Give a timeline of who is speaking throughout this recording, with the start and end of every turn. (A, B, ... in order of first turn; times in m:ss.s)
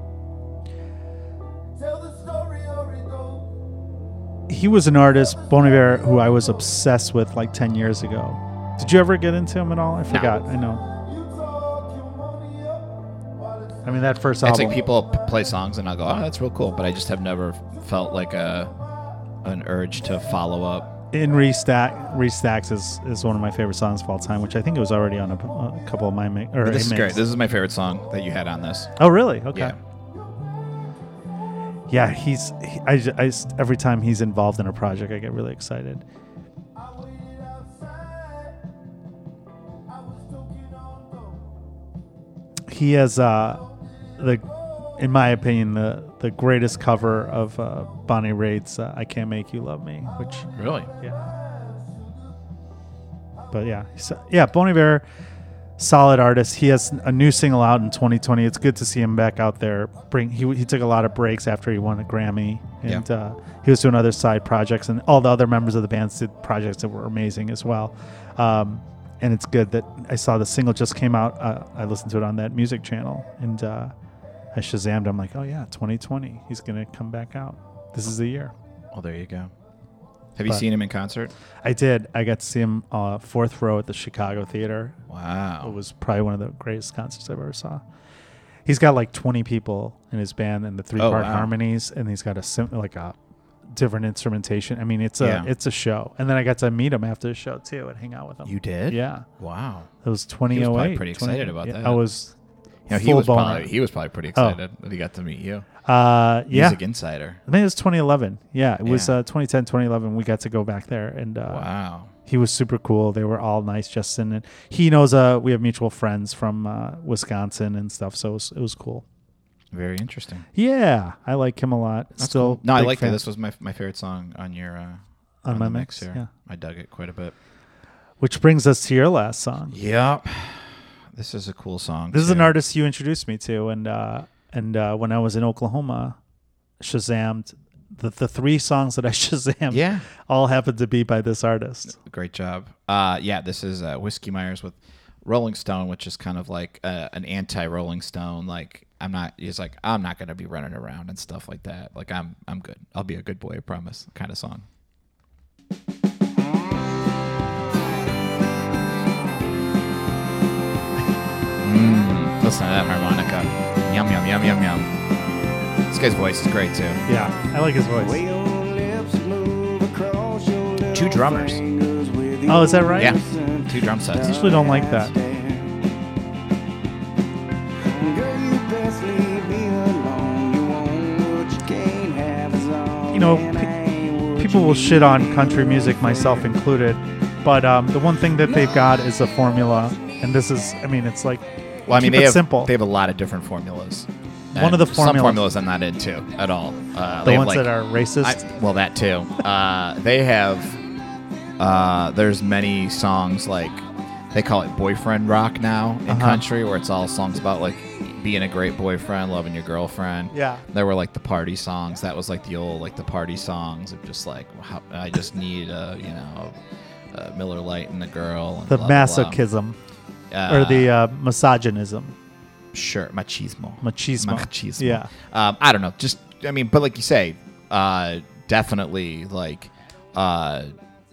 0:01.9-0:03.4 A
0:04.5-0:10.8 B
0:10.1-0:10.4 C
0:11.0-0:12.8 A
0:13.8-0:14.8 B
0:14.4-0:18.7 C
0:19.4-0:20.9 C
0:21.1-0:27.2 B
0:26.6-0:28.9 C
0:29.0-0:29.8 B
0:31.9-0:36.0 B
0:42.7-0:43.6 B
0:44.2-0:50.5 B
0:50.6-0:50.9 C
0:53.5-0:55.0 B
0:55.8-1:13.9 B
1:14.5-1:18.5 B
1:18.9-1:19.5 C
1:20.4-1:21.3 C
1:21.6-1:25.0 B
1:25.1-1:25.8 C
1:25.6-1:27.8 B
1:28.6-1:33.2 B
1:31.0-1:31.5 C
1:33.7-1:39.2 B
1:35.2-1:35.5 C
1:38.4-1:39.9 C
1:40.0-1:42.3 B
1:40.5-1:42.0 C
1:42.9-1:43.7 B
1:42.9-1:45.7 C
1:44.3-1:44.6 B
1:45.8-1:46.8 B
1:46.5-1:47.4 C
1:47.4-1:51.7 B
1:48.8-1:49.2 C
1:51.5-1:52.1 C
1:52.2-1:59.0 B
1:59.7-2:00.5 C
2:00.6-2:03.2 B
2:02.2-2:07.3 C
2:05.4-2:06.3 B
2:08.2-2:09.8 B
2:09.7-2:12.5 C
2:12.1-2:16.2 B
2:16.8-2:22.0 B
2:19.7-2:20.0 C
2:21.9-2:34.6 C
2:41.6-2:44.9 C
2:45.9-2:47.0 C
2:47.0-2:48.2 B
2:48.0-2:55.8 A
2:50.9-2:51.6 C
2:52.5-2:53.1 B
2:53.0-2:54.3 C
2:54.2-2:55.1 B
2:57.8-3:06.5 A
3:03.1-3:03.7 B
3:04.4-3:12.7 B
3:11.9-3:20.8 C
3:14.5-3:15.4 B
3:17.2-3:18.4 B
3:21.6-3:36.5 C
3:26.1-3:26.4 B
3:30.3-3:30.6 B
3:37.1-3:39.4 C
3:38.7-3:39.8 B
3:40.3-3:40.9 C
3:40.5-3:42.2 B
3:42.7-3:50.7 C
3:43.8-3:45.1 B